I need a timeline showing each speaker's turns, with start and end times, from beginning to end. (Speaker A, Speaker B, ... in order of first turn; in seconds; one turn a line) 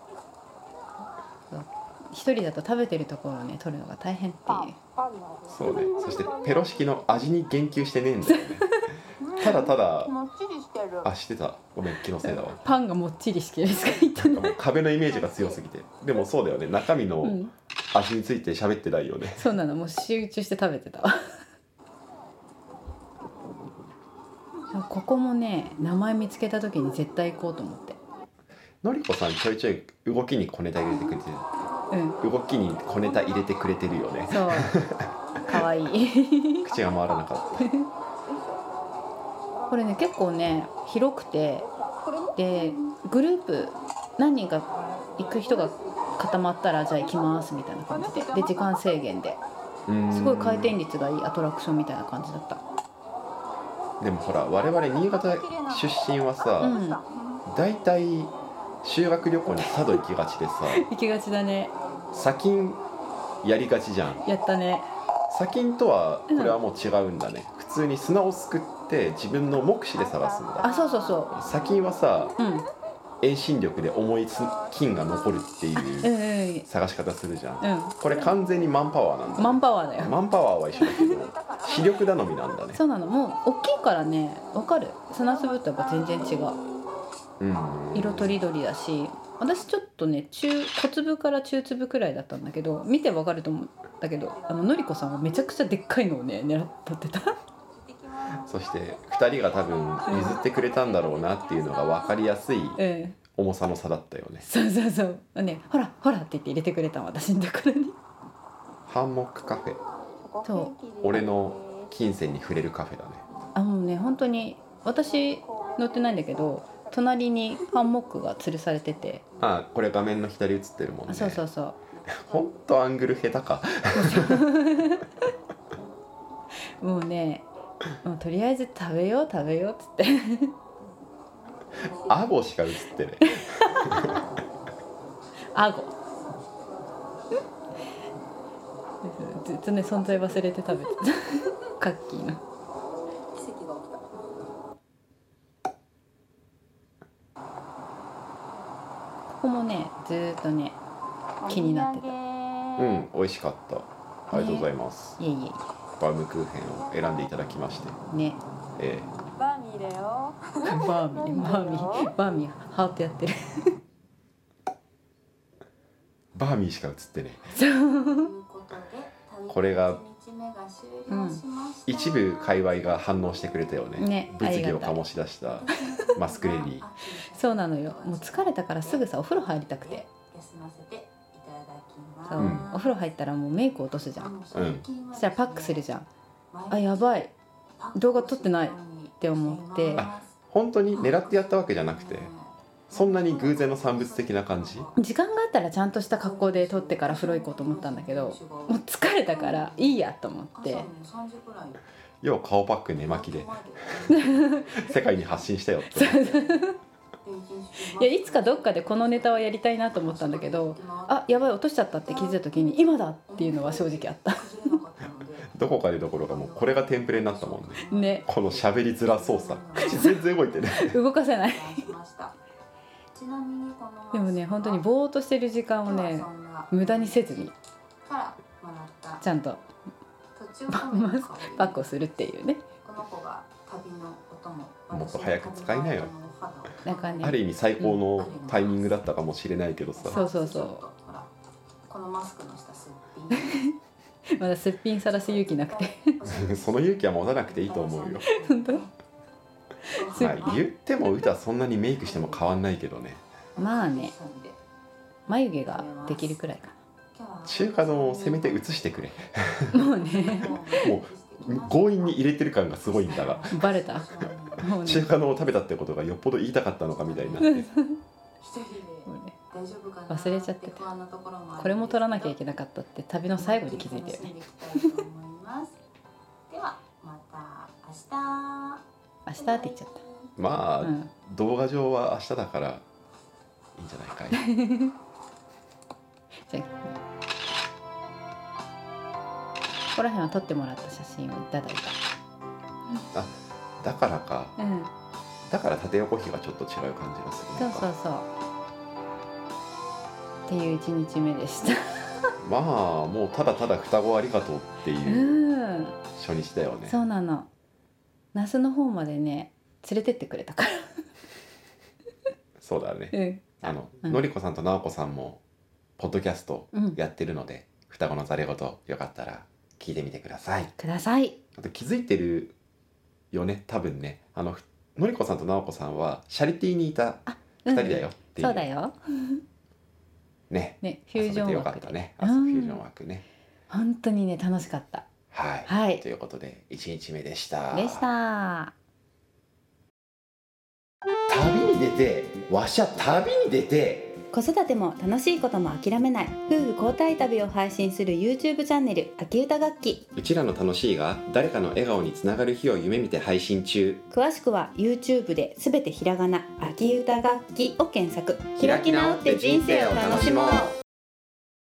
Speaker A: 1.5-4.8
Speaker B: 4.5-4.7
Speaker B: 5.3-6.7
Speaker C: 5.5-8.8
Speaker A: 8.3-8.8
Speaker B: 9.2-11.1
Speaker C: 9.4-10.1
Speaker C: 11.0-12.6
Speaker A: 12.2-14.6
Speaker C: 14.1-17.4
Speaker B: 15.0-15.6
Speaker A: 17.2-17.5
Speaker C: 17.9-19.5
Speaker A: 19.4-21.2
Speaker A: 24.7-28.0
Speaker C: 28.8-31.5
Speaker A: 31.9-32.2
Speaker C: 32.2-35.1
Speaker A: 34.3-34.8
Speaker A: 35.5-36.7
Speaker C: 36.6-37.7
Speaker A: 37.6-37.9
Speaker A: 39.7-41.7
Speaker B: 42.0-42.9
Speaker A: 42.4-49.4
Speaker B: 45.4-45.8
Speaker B: 47.1-48.7
Speaker C: 49.9-50.8
Speaker A: 50.1-52.6
Speaker C: 54.0-56.8
Speaker B: 54.4-57.4
Speaker A: 56.6-57.0
Speaker C: 57.5-60.9
Speaker A: 59.5-60.0
Speaker A: 60.7-61.7
Speaker C: 62.1-62.8
Speaker C: 63.4-64.2
Speaker A: 64.2-64.9
Speaker C: 65.3-70.7
Speaker A: 66.3-66.6
Speaker B: 69.9-72.3
Speaker A: 70.6-71.3
Speaker C: 71.3-72.3
Speaker A: 72.4-72.7
Speaker C: 73.2-76.1
Speaker B: 74.3-75.5
Speaker A: 75.8-76.7
Speaker C: 76.6-82.8
Speaker A: 77.6-78.0
Speaker B: 78.1-78.4
Speaker A: 79.4-80.2
Speaker B: 80.7-82.1
Speaker A: 80.8-81.1
Speaker A: 82.7-86.5
Speaker B: 84.5-86.9
Speaker C: 87.4-88.4
Speaker A: 87.9-97.4
Speaker B: 94.1-95.8
Speaker B: 97.7-102.6
Speaker C: 98.4-102.8
Speaker A: 100.1-100.4
Speaker A: 102.8-103.2
Speaker C: 103.3-104.5
Speaker A: 104.4-108.0
Speaker C: 108.9-109.8
Speaker B: 110.2-111.9
Speaker A: 110.5-110.7
Speaker C: 111.0-113.2
Speaker A: 113.5-119.2
Speaker B: 115.0-116.7
Speaker B: 119.1-119.5
Speaker C: 119.4-121.4
Speaker A: 121.1-121.8
Speaker B: 121.9-122.6
Speaker C: 122.1-124.5
Speaker A: 123.9-125.1
Speaker A: 126.8-127.5
Speaker A: 128.0-130.5
Speaker B: 131.8-132.3
Speaker C: 131.9-134.2
Speaker A: 133.2-134.1
Speaker A: 135.5-135.9
Speaker A: 139.0-142.4
Speaker B: 143.3-144.1
Speaker A: 149.3-150.8
Speaker B: 151.4-153.1
Speaker A: 151.5-152.1
Speaker C: 152.8-155.2
Speaker A: 154.3-155.6
Speaker C: 156.0-158.0
Speaker A: 158.1-158.4
Speaker C: 158.8-159.1
Speaker B: 159.4-162.1
Speaker A: 160.7-163.7
Speaker C: 166.3-167.5
Speaker A: 167.5-168.3
Speaker B: 167.6-174.0
Speaker C: 169.5-170.0
Speaker A: 171.1-171.4
Speaker C: 171.9-176.9
Speaker A: 174.0-175.0
Speaker B: 175.6-182.9
Speaker A: 175.7-176.0
Speaker A: 177.3-180.1
Speaker A: 182.3-184.3
Speaker C: 182.4-182.7
Speaker B: 184.2-185.9
Speaker C: 184.5-184.8
Speaker A: 185.1-186.1
Speaker B: 186.5-187.2
Speaker A: 186.7-187.3
Speaker B: 187.8-195.2
Speaker A: 187.9-190.0
Speaker C: 189.9-192.3
Speaker C: 192.9-194.9
Speaker A: 194.9-200.9
Speaker B: 196.1-200.0
Speaker B: 200.5-201.8
Speaker C: 202.2-204.1
Speaker B: 203.0-205.5
Speaker A: 204.1-204.6
Speaker C: 204.8-206.5
Speaker A: 205.9-206.8
Speaker B: 206.3-206.7
Speaker B: 207.2-215.5
Speaker A: 207.9-214.7
Speaker C: 215.5-221.0
Speaker B: 216.2-220.7
Speaker A: 217.9-218.2
Speaker A: 219.8-221.9
Speaker B: 221.3-222.3
Speaker B: 223.1-224.9
Speaker A: 224.1-227.5
Speaker B: 225.8-227.5
Speaker B: 228.0-229.2
Speaker A: 229.2-229.6
Speaker B: 230.3-231.9
Speaker A: 230.7-232.6
Speaker B: 232.8-239.3
Speaker C: 234.9-236.1
Speaker A: 236.8-238.0
Speaker C: 237.2-240.2
Speaker B: 239.9-241.3
Speaker A: 240.1-240.8
Speaker B: 241.9-243.7
Speaker A: 243.4-243.7
Speaker A: 244.4-246.1
Speaker B: 245.1-248.9
Speaker C: 246.2-248.2
Speaker A: 248.2-248.8
Speaker A: 249.9-250.6
Speaker B: 249.9-250.7
Speaker C: 250.2-253.2
Speaker B: 252.0-252.5
Speaker B: 253.5-254.6
Speaker A: 253.6-254.1
Speaker A: 255.3-256.8
Speaker B: 255.6-256.4
Speaker B: 257.1-259.1
Speaker C: 257.4-259.9
Speaker A: 259.7-260.9
Speaker B: 259.7-265.6
Speaker C: 260.8-263.6
Speaker A: 263.5-265.1
Speaker C: 264.8-267.7
Speaker B: 266.9-267.6
Speaker A: 267.4-268.0
Speaker B: 268.4-272.5
Speaker A: 269.1-269.3
Speaker A: 270.1-270.8
Speaker A: 271.6-274.3
Speaker B: 273.4-275.8
Speaker B: 276.5-278.8
Speaker A: 279.2-280.0
Speaker B: 279.4-280.4
Speaker C: 280.4-282.8
Speaker A: 280.8-281.1
Speaker C: 283.8-284.4
Speaker A: 284.3-284.9
Speaker A: 286.5-287.0
Speaker A: 289.9-291.9
Speaker C: 293.1-294.5
Speaker A: 294.6-294.9
Speaker C: 295.5-297.9
Speaker A: 297.6-298.3
Speaker A: 300.5-302.3
Speaker C: 302.4-305.4
Speaker A: 305.0-305.9
Speaker C: 306.1-307.0
Speaker A: 306.9-307.5
Speaker A: 308.3-310.9
Speaker C: 312.6-315.4
Speaker A: 313.1-314.2
Speaker C: 316.0-320.7
Speaker A: 316.7-317.0
Speaker A: 320.8-321.4
Speaker C: 321.6-322.5
Speaker C: 323.3-328.7
Speaker A: 327.3-329.4
Speaker C: 330.5-333.2
Speaker A: 330.8-332.8
Speaker A: 333.7-335.0
Speaker C: 335.3-338.1
Speaker A: 335.6-336.0
Speaker A: 337.7-338.7
Speaker C: 341.3-344.2
Speaker A: 344.3-350.1
Speaker C: 350.1-354.0
Speaker A: 354.1-360.7
Speaker C: 358.6-360.7